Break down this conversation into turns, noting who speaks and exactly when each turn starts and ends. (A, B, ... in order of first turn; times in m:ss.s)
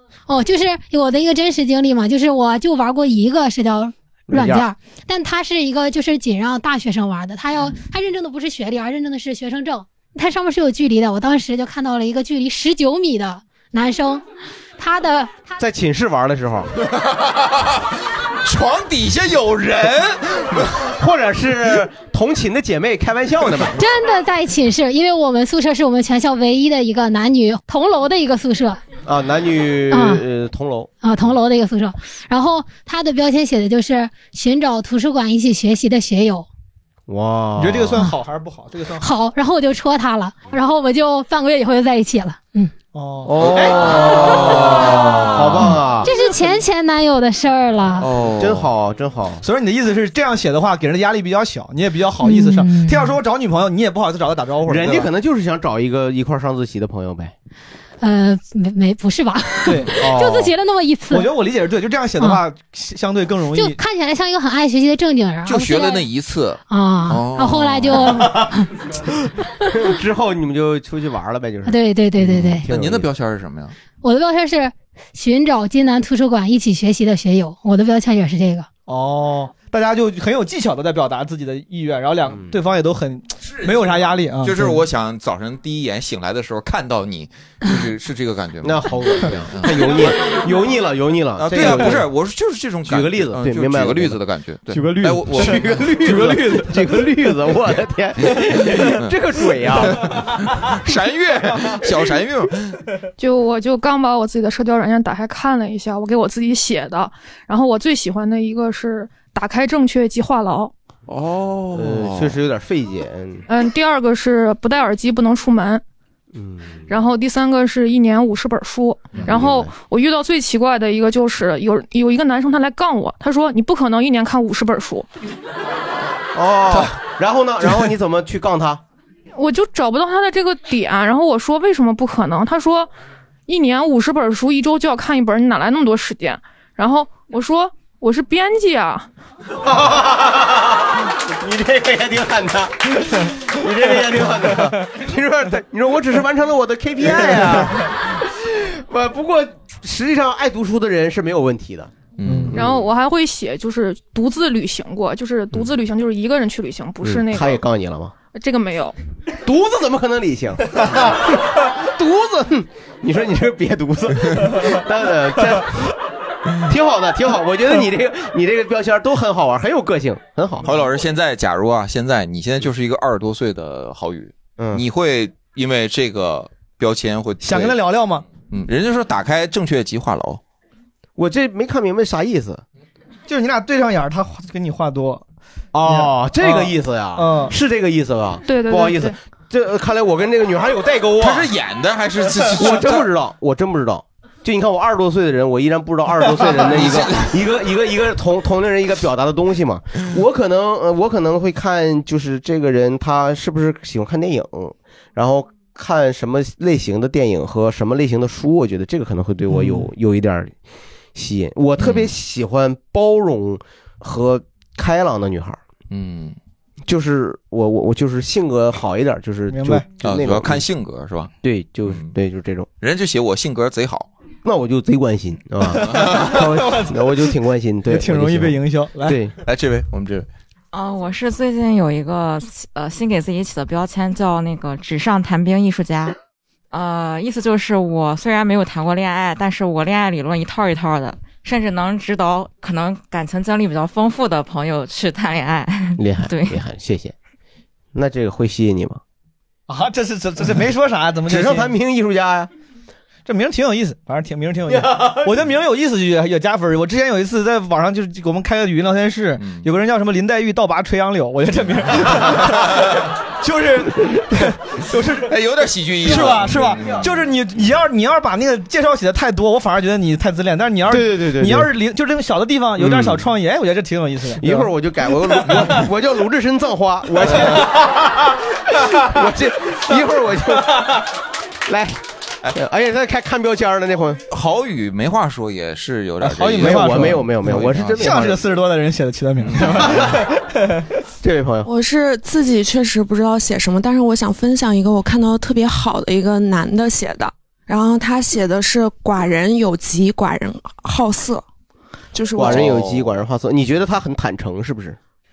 0:00.3-0:14.2 A
0:04.3-0:04.7 B
0:14.8-0:15.5 A
0:15.6-0:16.7 B
0:17.0-0:17.9 C
0:18.4-0:20.7 C
0:20.8-0:23.8 B
0:23.7-0:28.8 A
0:29.0-0:30.9 B
0:29.9-0:30.2 A
0:31.0-0:36.5 A
0:37.1-0:38.0 B
0:37.6-0:39.1 D
0:39.0-0:42.7 A
0:42.9-0:44.5 D
0:43.2-0:46.1 B
0:44.9-0:48.1 A
0:45.3-0:45.7 D
0:48.0-0:48.7 C
0:48.4-0:49.4 B
0:49.4-0:55.1 D
0:52.2-0:53.1 A
0:54.6-0:57.3 B
0:58.0-1:01.3 A
0:59.6-1:00.0 D
0:59.9-1:00.5 B
1:01.1-1:03.8 D
1:03.5-1:06.1 A
1:05.4-1:08.3 C
1:06.7-1:08.7 A
1:09.7-1:13.1 B
1:11.6-1:12.6 A
1:12.2-1:13.8 C
1:14.0-1:18.7 A
1:18.9-1:24.8 D
1:23.4-1:30.1 C
1:28.6-1:32.1 B
1:31.4-1:36.0 C
1:31.5-1:32.0 D
1:32.8-1:34.2 B
1:34.7-1:37.1 D
1:35.3-1:40.1 B
1:38.8-1:42.8 C
1:43.2-1:50.7 E
1:51.1-1:52.4 C
1:51.7-1:53.5 B
1:53.5-1:55.8 E
1:56.3-1:56.8 B
1:56.9-2:05.1 E
1:59.2-1:59.7 B
2:06.3-2:08.8 B
2:09.3-2:12.9 E
2:13.5-2:19.1 E
2:19.6-2:31.9 B
2:32.2-2:32.8 C
2:32.3-2:32.5 D
2:32.5-2:37.6 E
2:37.0-2:38.1 B
2:38.3-2:39.0 E
2:39.4-2:45.9 B
2:46.6-2:50.7 B
2:50.6-3:00.4 C
2:54.6-2:54.8 B
2:57.4-2:58.2 D
3:01.2-3:02.6 B
3:03.3-3:05.2 D
3:05.7-3:11.5 B
3:05.8-3:07.5 D
3:08.5-3:09.1 E
3:11.2-3:13.1 C
3:12.5-3:30.5 B
3:16.5-3:17.3 C
3:29.5-3:29.8 D
3:31.1-3:35.6 B
3:31.8-3:32.1 C
3:35.9-3:36.4 C
3:36.8-3:40.6 B
3:39.5-3:39.8 D
3:40.0-3:41.3 C
3:41.4-3:42.7 B
3:41.8-3:42.1 C
3:42.8-3:44.1 C
3:44.4-3:49.3 B
3:45.7-3:47.2 D
3:45.8-3:46.4 C
3:47.9-3:49.2 D
3:49.4-3:50.3 C
3:50.7-3:56.2 F
3:56.7-4:06.6 F
4:06.0-4:07.1 B
4:07.9-4:09.0 B
4:09.7-4:11.7 D
4:11.2-4:12.5 B
4:13.3-4:25.3 D
4:14.7-4:15.3 B
4:19.4-4:19.6 C
4:25.2-4:27.2 C
4:26.0-4:34.7 D
4:30.9-4:31.7 B
4:32.8-4:33.3 B
4:34.4-4:40.9 B
4:35.4-4:35.8 D
4:41.6-4:44.2 B
4:44.3-4:48.1 C
4:46.2-4:50.8 D
4:46.6-4:48.4 B
4:49.4-4:50.1 C
4:51.2-4:51.7 B
4:51.6-5:01.4 G
5:02.1-5:02.7 G
5:02.3-5:05.0 B
5:02.4-5:03.1 C